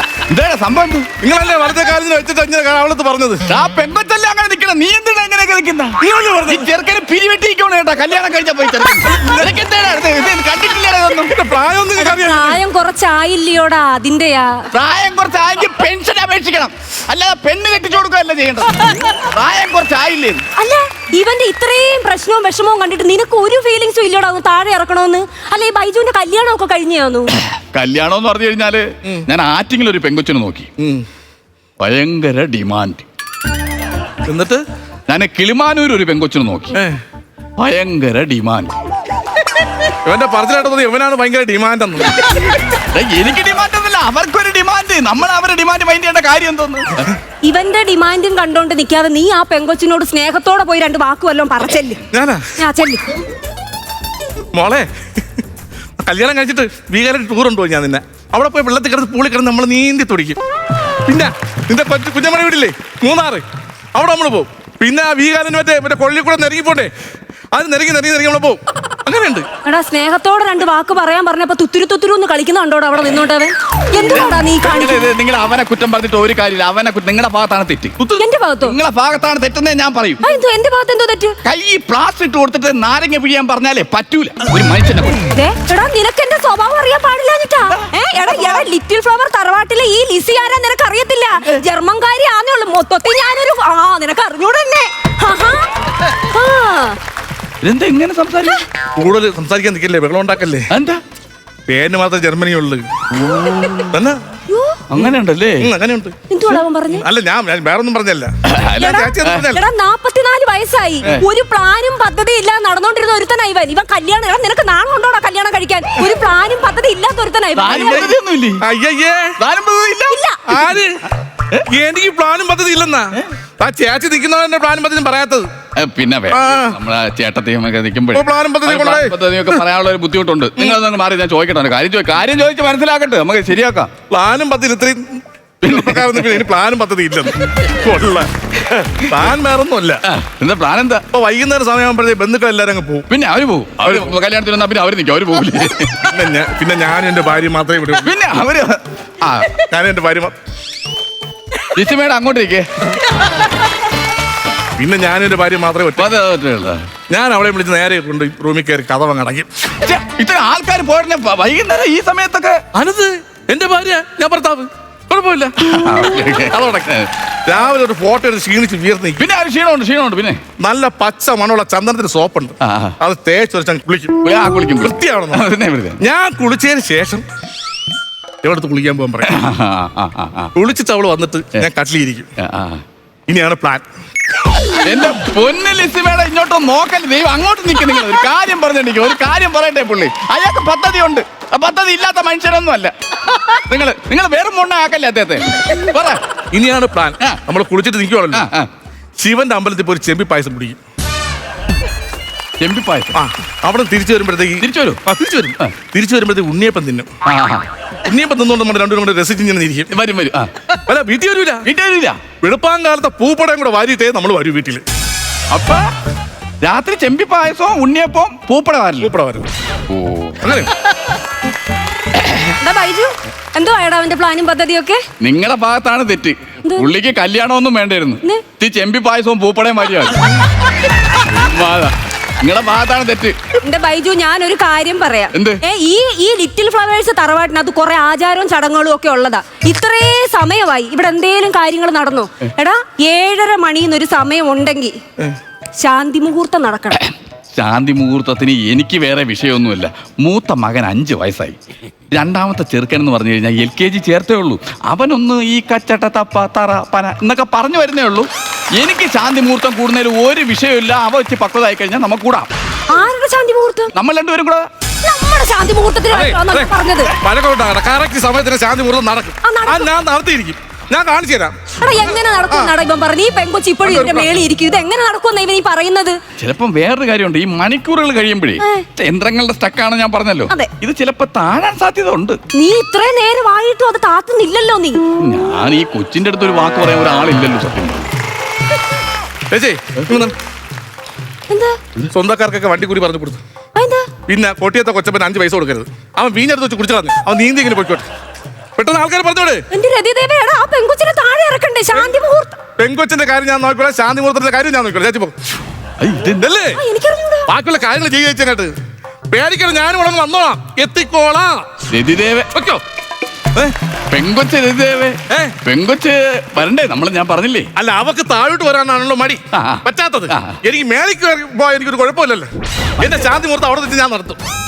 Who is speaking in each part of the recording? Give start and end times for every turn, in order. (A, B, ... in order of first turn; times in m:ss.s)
0:00.2-0:01.1 A
0:01.2-0:03.4 B
0:03.5-0:11.3 A
0:06.0-0:06.7 B
0:09.2-0:09.5 B
0:11.3-0:12.6 B
0:12.0-0:14.6 C
0:14.7-0:20.4 A
0:20.6-0:27.3 C
0:27.4-0:30.7 A
0:30.8-0:31.0 B
0:31.8-0:33.0 A
0:34.2-0:34.6 B
0:35.1-0:36.8 A
0:36.7-0:37.0 B
0:37.6-0:38.7 A
0:40.0-0:42.2 B
0:42.7-0:47.1 A
0:47.4-0:52.0 C
0:52.1-0:52.4 B
0:52.6-0:53.0 C
0:54.5-0:54.9 B
0:56.0-1:00.4 B
1:01.0-1:06.9 B
1:07.5-1:09.4 B
1:09.6-1:15.0 C
1:14.0-1:20.2 A
1:18.1-1:18.8 C
1:20.2-1:21.4 C
1:21.4-1:25.2 A
1:25.3-1:37.0 C
1:37.6-1:38.6 A
1:39.0-1:40.7 B
1:40.7-1:41.0 A
1:41.7-1:42.8 B
1:43.9-1:44.2 B
1:44.5-1:44.8 C
1:44.9-1:45.7 A
1:45.6-1:48.3 B
1:46.3-1:47.0 C
1:48.4-1:49.5 A
1:48.8-1:58.1 C
1:48.8-1:49.6 B
1:57.5-1:58.6 A
1:58.6-1:59.3 B
1:59.4-2:00.6 A
2:00.1-2:00.4 C
2:00.5-2:01.0 B
2:01.7-2:05.5 B
2:05.8-2:13.9 A
2:06.3-2:06.8 B
2:08.1-2:09.6 B
2:14.1-2:20.0 B
2:15.6-2:16.5 A
2:20.1-2:21.0 A
2:21.1-2:23.1 B
2:23.1-2:26.1 A
2:23.8-2:24.2 B
2:26.0-2:28.1 B
2:28.0-2:29.6 A
2:29.6-2:30.3 B
2:31.6-2:32.7 A
2:34.8-2:36.1 B
2:36.0-2:36.9 A
2:37.1-2:39.5 B
2:39.8-2:42.6 A
2:42.7-2:45.6 B
2:45.6-2:47.1 A
2:46.5-2:46.9 B
2:47.4-2:49.2 B
2:49.2-2:50.4 A
2:50.6-2:54.2 B
2:52.6-2:53.0 A
2:54.2-2:56.0 A
2:54.8-2:55.4 B
2:56.0-2:57.2 B
2:58.4-2:59.4 B
2:59.2-3:00.5 A
3:00.5-3:02.3 B
3:02.4-3:02.8 A
3:03.3-3:03.8 B
3:04.8-3:16.2 A
3:16.5-3:18.5 B
3:18.3-3:18.7 A
3:19.2-3:20.8 B
3:22.6-3:23.2 A
3:23.1-3:27.1 B
3:24.6-3:25.0 A
3:27.2-3:27.6 A
3:28.1-3:29.9 B
3:29.9-3:30.7 A
3:30.9-3:31.7 B
3:31.6-3:32.2 A
3:32.3-3:34.8 B
3:35.5-3:35.9 A
3:36.6-3:39.1 A
3:39.0-3:39.5 B
3:39.9-3:40.6 A
3:40.4-3:40.7 B
3:42.6-3:45.0 C
3:45.2-3:50.4 A
3:51.1-3:53.4 A
3:53.6-4:05.0 C
3:55.3-3:55.6 A
4:05.8-4:07.0 C
4:06.9-4:11.6 A
4:12.1-4:22.5 A
4:22.9-4:23.9 C
4:23.9-4:24.7 A
4:25.0-4:27.1 C
4:26.1-4:31.7 B
4:29.4-4:29.9 C
4:31.8-4:36.2 C
4:33.8-4:34.3 B
4:36.4-4:42.4 A
4:38.6-4:38.8 C
4:42.5-4:45.0 C
4:45.2-4:48.1 A
4:49.5-4:50.3 B
4:51.5-4:51.8 C
4:52.1-4:53.4 B
4:53.7-4:54.1 C
4:54.3-4:58.1 B
4:58.8-4:59.6 B
4:59.7-5:02.6 C
5:02.8-5:05.3 B
5:06.0-5:06.5 A
5:06.4-5:06.8 B
5:06.7-5:07.5 C
5:07.5-5:08.7 B
5:09.3-5:11.8 B
5:11.9-5:12.5 A
5:12.5-5:12.8 B
5:14.1-5:17.7 A
5:15.3-5:15.5 B
5:17.8-5:24.4 B
5:19.5-5:20.6 A